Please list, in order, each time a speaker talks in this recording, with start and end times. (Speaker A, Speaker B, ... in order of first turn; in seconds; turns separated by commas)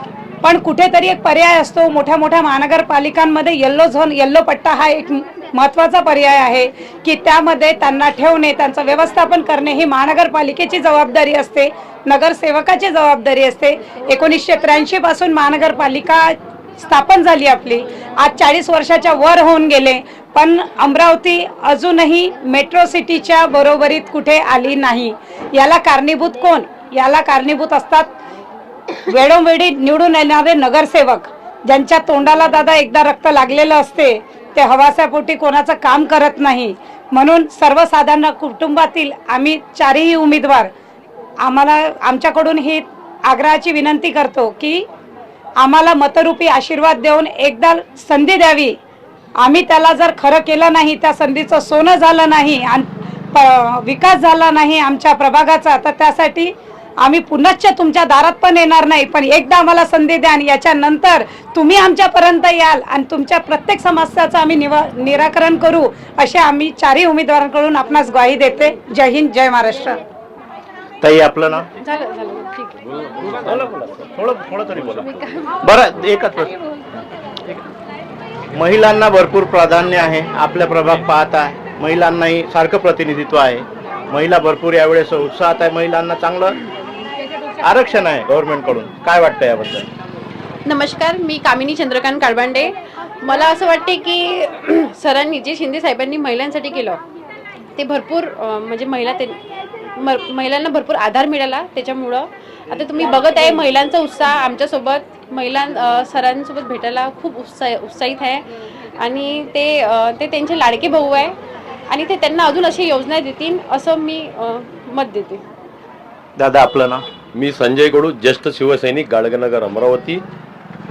Speaker A: 0.4-28.1, Speaker A: 29.1-40.7, Speaker A: 41.4-44.9, Speaker A: 45.6-48.8, Speaker A: 49.4-70.0, Speaker B: 71.0-71.7, Speaker C: 71.8-72.8, Speaker B: 73.4-76.6, Speaker B: 78.5-86.6, Speaker B: 87.6-89.9, Speaker C: 90.7-97.0, Speaker C: 97.8-99.4, Speaker C: 100.0-108.5, Speaker C: 109.0-111.4, Speaker C: 111.9-115.4, Speaker B: 116.4-117.0, Speaker D: 117.3-120.2